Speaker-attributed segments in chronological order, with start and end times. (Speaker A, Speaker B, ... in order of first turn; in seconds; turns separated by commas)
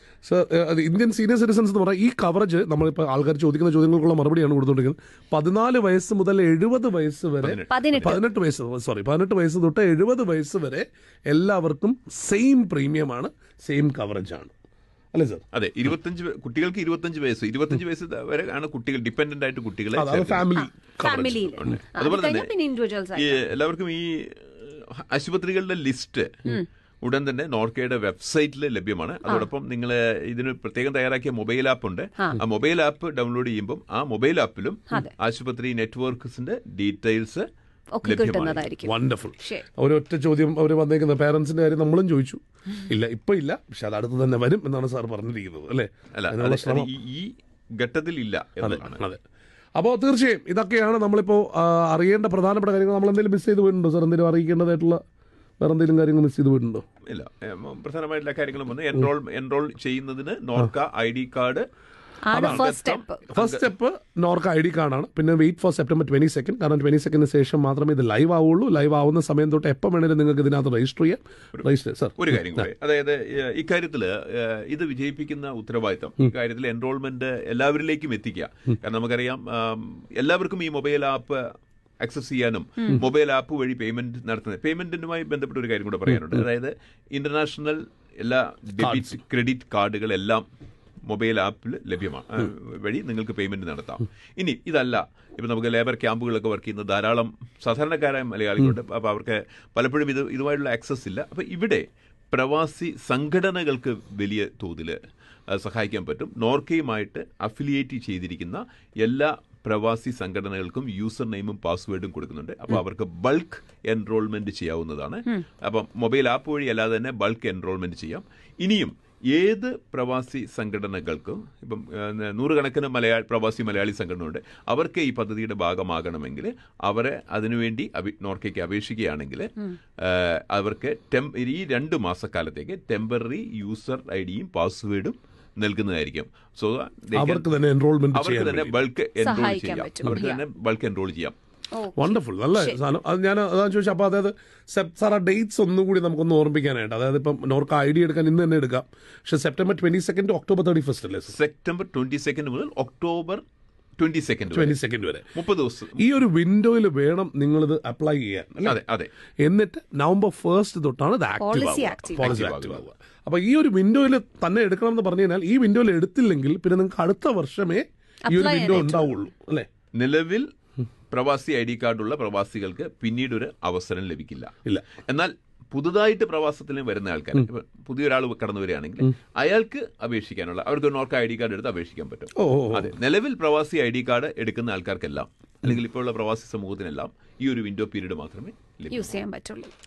Speaker A: 0.2-14.5, Speaker B: 7.4-8.2, Speaker C: 7.7-8.2, Speaker A: 15.1-15.4, Speaker B: 15.5-20.5, Speaker A: 19.9-21.8, Speaker C: 20.5-23.4, Speaker B: 21.1-22.5, Speaker B: 23.2-26.5, Speaker B: 27.0-37.5, Speaker C: 38.0-39.6, Speaker B: 38.0-38.7, Speaker A: 38.8-46.9, Speaker B: 46.1-49.0, Speaker A: 48.6-49.2, Speaker A: 49.8-55.0, Speaker A: 55.6-56.8, Speaker B: 57.1-61.7, Speaker C: 62.3-63.3, Speaker A: 62.3-62.6, Speaker B: 62.4-63.7, Speaker A: 63.4-72.7, Speaker B: 72.2-81.5, Speaker B: 82.0-90.5, Speaker B: 91.1-105.0, Speaker B: 105.5-137.5, Speaker A: 137.1-138.8, Speaker B: 138.1-141.4, Speaker C: 139.2-140.4, Speaker C: 141.7-142.8, Speaker A: 142.0-151.3, Speaker B: 151.3-153.4, Speaker B: 154.0-154.8, Speaker A: 154.5-155.3, Speaker B: 155.3-156.1, Speaker A: 156.0-158.8, Speaker B: 158.6-159.1, Speaker A: 159.4-169.7, Speaker C: 161.4-162.4, Speaker B: 162.2-162.9, Speaker C: 168.3-169.1, Speaker B: 168.4-168.9, Speaker B: 170.0-170.5, Speaker B: 171.1-174.5, Speaker B: 175.1-189.2, Speaker A: 182.4-182.9, Speaker C: 188.9-189.7